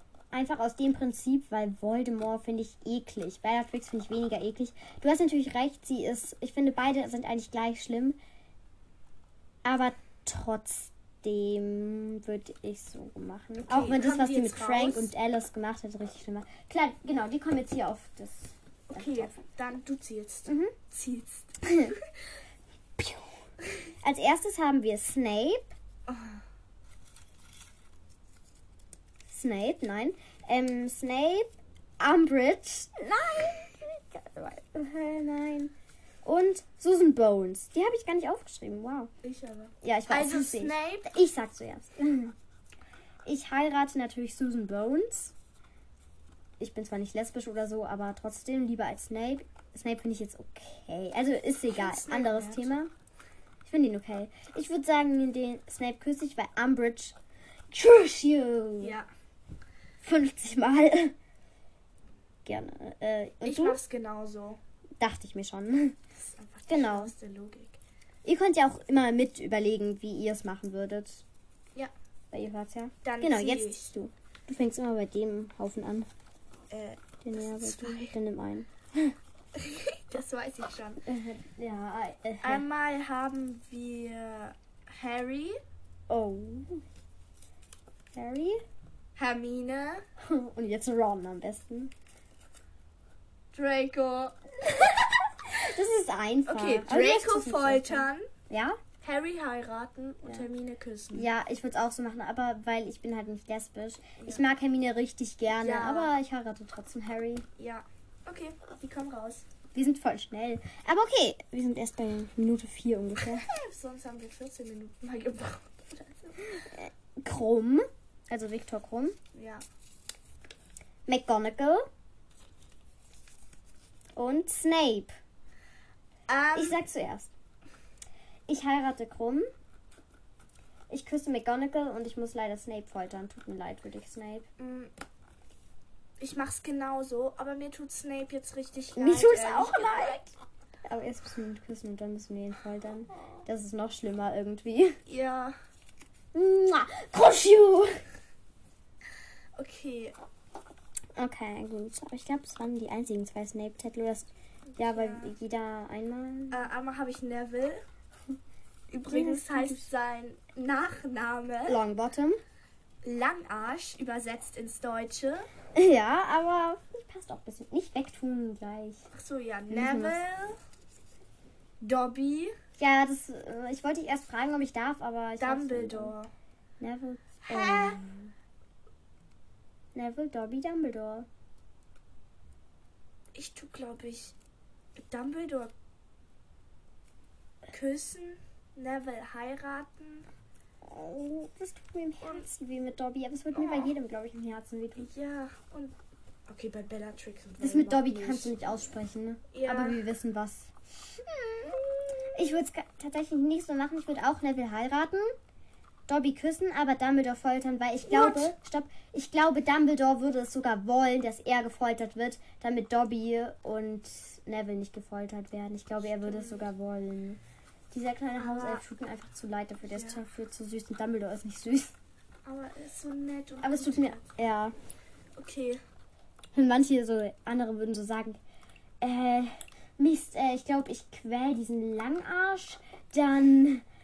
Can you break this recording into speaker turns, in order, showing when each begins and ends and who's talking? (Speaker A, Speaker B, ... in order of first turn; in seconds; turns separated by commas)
Speaker A: 0.3-8.2, Speaker A: 9.7-19.3, Speaker B: 13.7-15.1, Speaker B: 18.9-22.1, Speaker A: 20.5-20.7, Speaker A: 23.0-23.3, Speaker A: 24.0-25.7, Speaker B: 26.1-26.4, Speaker A: 29.3-31.5, Speaker A: 32.0-35.7, Speaker A: 36.2-39.1, Speaker B: 39.2-41.1, Speaker A: 39.8-42.4, Speaker A: 43.3-45.3, Speaker A: 46.6-52.9, Speaker B: 51.7-52.7, Speaker A: 53.6-57.1, Speaker A: 57.7-59.0, Speaker B: 58.8-59.1, Speaker A: 60.0-61.1, Speaker A: 62.5-63.8, Speaker B: 63.4-64.6, Speaker A: 65.0-66.0, Speaker B: 66.2-67.8, Speaker A: 66.7-67.1, Speaker A: 68.2-71.2, Speaker A: 72.3-76.1, Speaker B: 73.0-73.9, Speaker B: 76.7-78.2, Speaker A: 77.2-79.2, Speaker B: 79.6-81.0, Speaker A: 81.1-82.6, Speaker B: 82.4-85.6, Speaker A: 86.1-86.8, Speaker A: 88.2-88.6, Speaker B: 89.2-90.0, Speaker A: 90.2-91.9, Speaker B: 93.5-95.1, Speaker A: 95.5-98.8, Speaker B: 96.5-98.3, Speaker B: 99.0-101.3, Speaker A: 101.1-107.5, Speaker B: 104.2-104.4, Speaker B: 105.5-106.1, Speaker B: 107.6-109.5, Speaker A: 109.7-113.5, Speaker B: 113.2-116.7, Speaker A: 116.7-119.2, Speaker B: 119.3-119.6, Speaker A: 121.1-121.8, Speaker A: 124.2-125.1, Speaker B: 126.3-126.8, Speaker A: 126.5-127.3, Speaker A: 128.5-129.5, Speaker A: 130.9-134.5, Speaker B: 134.6-134.9, Speaker B: 136.2-140.3, Speaker A: 139.0-140.2, Speaker A: 140.9-145.0, Speaker B: 145.1-145.5, Speaker A: 146.3-148.0, Speaker B: 149.6-150.2, Speaker A: 151.2-156.7, Speaker B: 154.7-155.3, Speaker B: 156.5-157.8, Speaker B: 158.9-161.8, Speaker A: 159.1-159.9, Speaker A: 161.7-162.4, Speaker B: 163.0-165.5, Speaker A: 165.8-169.1, Speaker B: 169.1-170.6, Speaker A: 169.7-170.2, Speaker B: 171.8-172.5, Speaker A: 172.8-176.2, Speaker B: 175.4-176.3, Speaker A: 176.8-178.3, Speaker B: 177.4-178.0, Speaker A: 179.9-181.3, Speaker B: 183.3-184.3, Speaker B: 185.0-185.7, Speaker B: 187.7-190.3, Speaker A: 190.9-195.1, Speaker B: 193.5-193.9, Speaker B: 195.0-195.9, Speaker B: 196.5-198.6, Speaker A: 197.6-200.7, Speaker B: 199.5-200.1, Speaker B: 201.3-202.3, Speaker A: 202.3-205.3, Speaker A: 206.1-217.4, Speaker B: 208.1-208.5, Speaker B: 216.0-216.7, Speaker A: 217.9-221.9, Speaker B: 218.4-218.8, Speaker B: 219.9-220.2, Speaker B: 222.5-224.3, Speaker A: 223.6-224.8, Speaker B: 225.4-225.8, Speaker A: 226.5-228.4, Speaker A: 229.0-233.8